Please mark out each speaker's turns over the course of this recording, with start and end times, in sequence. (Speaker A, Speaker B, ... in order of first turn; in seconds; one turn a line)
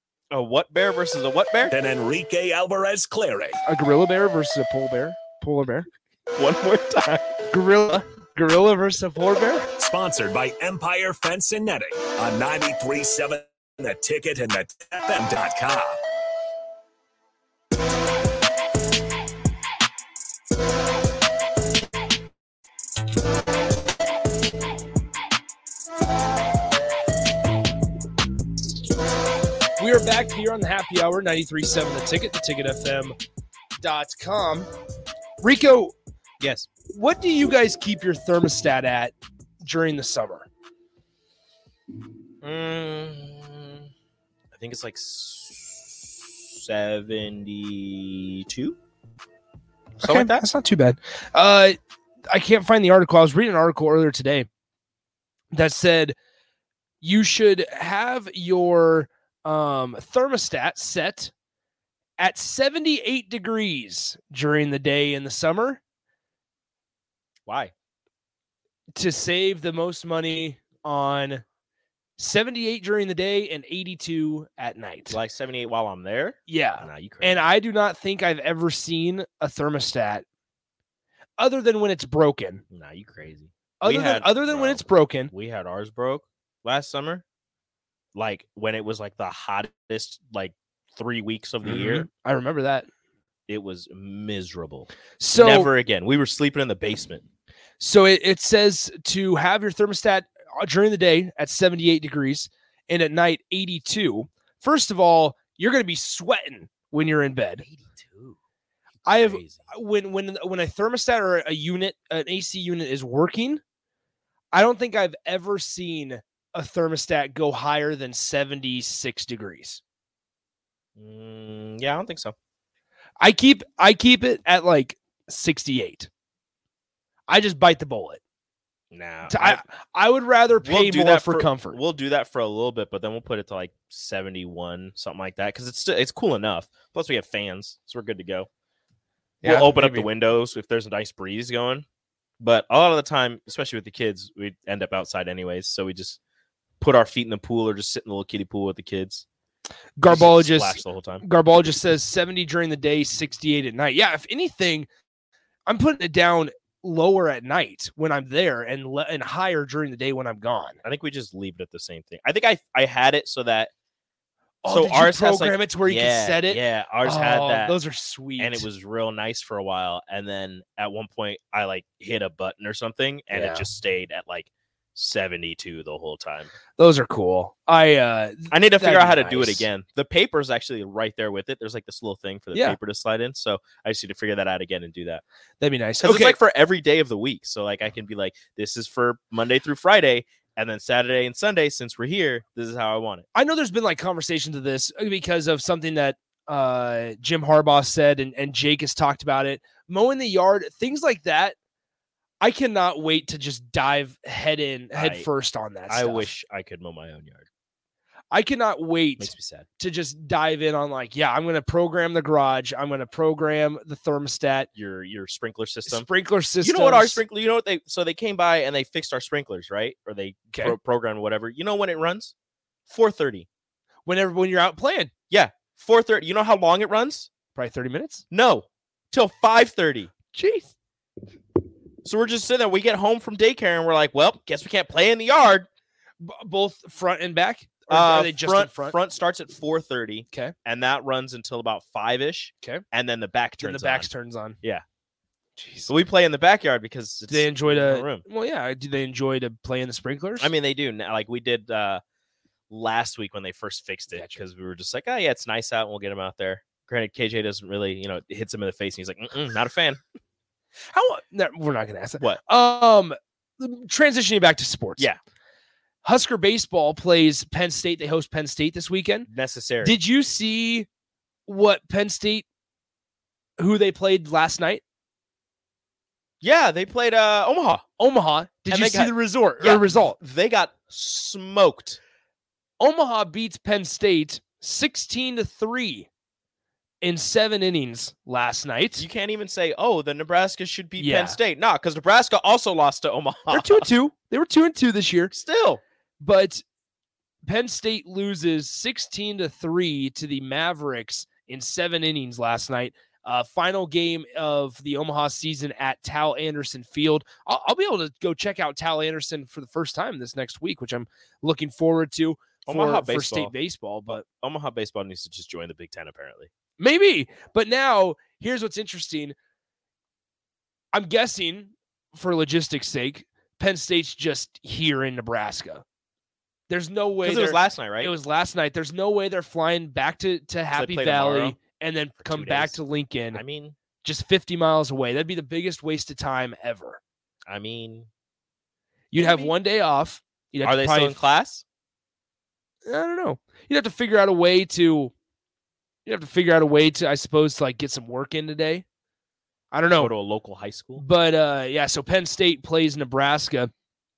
Speaker A: 0.3-1.7
Speaker B: 1.7-3.6
Speaker C: 3.6-5.9
Speaker A: 6.3-7.4
Speaker C: 7.5-9.7
Speaker B: 9.8-16.0
Speaker C: 29.8-33.1
Speaker C: 33.8-34.7
Speaker C: 35.4-35.9
Speaker A: 36.4-36.7
Speaker C: 36.9-40.5
Speaker A: 42.4-43.9
Speaker A: 44.5-48.8
Speaker A: 50.0-50.5
Speaker C: 50.0-51.7
Speaker C: 52.3-54.5
Speaker C: 55.5-56.1
Speaker C: 57.0-61.3
Speaker C: 62.2-65.8
Speaker A: 67.5-67.7
Speaker C: 69.0-71.4
Speaker C: 72.2-75.2
Speaker A: 75.1-77.5
Speaker C: 76.5-80.2
Speaker C: 81.4-82.6
Speaker A: 82.7-87.2
Speaker C: 83.8-85.3
Speaker A: 88.1-92.1
Speaker C: 91.6-92.9
Speaker A: 93.5-97.2
Speaker C: 95.2-95.7
Speaker C: 97.8-107.6
Speaker A: 107.6-108.4
Speaker A: 109.0-109.7
Speaker C: 109.0-113.6
Speaker C: 114.5-119.8
Speaker A: 121.0-122.3
Speaker C: 123.2-126.1
Speaker C: 127.3-128.2
Speaker A: 128.9-129.6
Speaker C: 129.3-131.8
Speaker A: 130.6-138.5
Speaker C: 139.4-140.1
Speaker A: 139.4-141.8
Speaker A: 142.4-146.2
Speaker A: 146.8-149.2
Speaker C: 150.0-154.9
Speaker A: 150.1-151.2
Speaker C: 155.7-160.8
Speaker A: 160.8-163.7
Speaker C: 164.6-168.7
Speaker A: 164.7-167.7
Speaker A: 168.4-176.5
Speaker C: 173.3-173.7
Speaker C: 176.8-179.7
Speaker A: 178.5-185.2
Speaker C: 185.6-186.4
Speaker A: 186.0-193.2
Speaker C: 193.3-201.6
Speaker C: 202.4-206.3
Speaker A: 204.9-205.3
Speaker A: 205.9-207.5
Speaker C: 208.3-214.7
Speaker A: 209.2-209.7
Speaker A: 214.7-216.1
Speaker C: 215.9-217.2
Speaker A: 216.6-222.3
Speaker C: 220.5-220.8
Speaker A: 222.9-223.5
Speaker C: 224.1-225.1
Speaker A: 225.3-227.3
Speaker C: 227.5-228.2
Speaker A: 228.3-230.1
Speaker C: 230.3-230.7
Speaker A: 232.0-235.7
Speaker C: 236.2-238.9
Speaker A: 237.9-244.1
Speaker C: 243.6-244.6
Speaker C: 245.6-245.9
Speaker A: 245.9-248.2
Speaker C: 247.3-250.5
Speaker A: 250.4-252.0
Speaker A: 252.7-260.0
Speaker C: 254.1-254.4
Speaker C: 260.9-265.1
Speaker C: 266.0-269.3
Speaker A: 269.3-270.0
Speaker C: 269.8-270.9
Speaker C: 271.5-272.4
Speaker C: 273.6-274.8
Speaker A: 276.4-277.8
Speaker C: 278.0-280.2
Speaker A: 278.7-282.0
Speaker C: 282.8-286.1
Speaker C: 287.0-289.1
Speaker A: 289.0-293.9
Speaker C: 291.0-291.4
Speaker C: 293.5-295.3
Speaker A: 295.3-295.8
Speaker C: 296.2-296.6
Speaker C: 297.4-314.2
Speaker A: 312.6-313.5
Speaker A: 314.1-316.5
Speaker C: 316.8-319.4
Speaker C: 320.9-325.8
Speaker C: 326.7-333.4
Speaker A: 327.2-328.1
Speaker A: 330.7-331.6
Speaker A: 332.2-332.8
Speaker A: 333.3-333.8
Speaker C: 334.0-337.0
Speaker A: 337.5-338.1
Speaker C: 339.1-341.2
Speaker A: 339.1-339.5
Speaker A: 340.6-341.6
Speaker C: 342.8-345.1
Speaker C: 346.1-348.8
Speaker C: 349.7-350.1
Speaker A: 350.0-351.0
Speaker C: 351.0-353.7